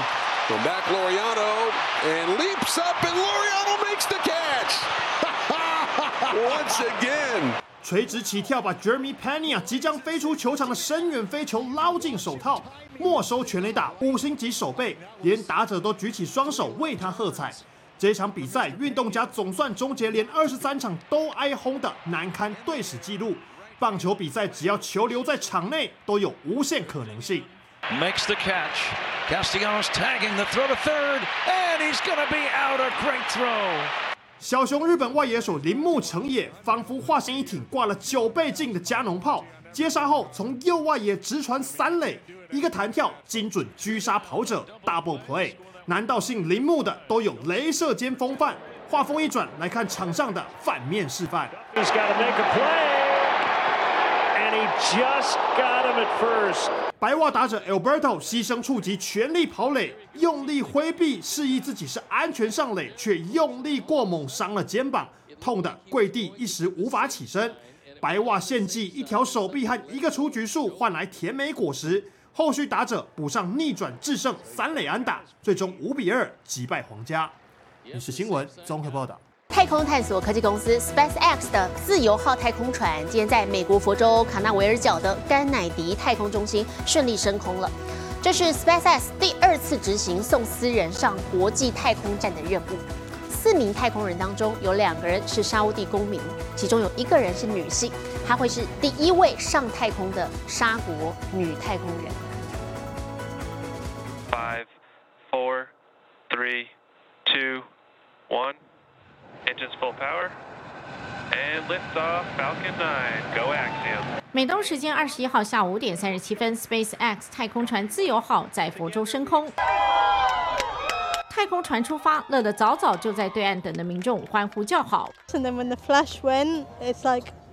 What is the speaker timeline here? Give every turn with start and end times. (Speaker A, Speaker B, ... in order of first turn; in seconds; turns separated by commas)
Speaker A: 0.5-7.6, Speaker B: 7.8-27.5, Speaker C: 27.9-28.7, Speaker C: 29.3-33.8, Speaker B: 34.4-51.5, Speaker D: 51.7-53.3, Speaker D: 54.4-56.7, Speaker B: 57.0-77.3, Speaker B: 77.9-79.2, Speaker E: 79.5-102.2, Speaker F: 104.3-104.7, Speaker F: 105.3-105.7, Speaker F: 106.3-106.7, Speaker F: 107.2-107.7, Speaker F: 108.3-108.6, Speaker F: 109.5-110.3, Speaker F: 111.3-114.1, Speaker G: 114.3-119.5, Speaker G: 121.3-125.1, Speaker H: 125.3-127.3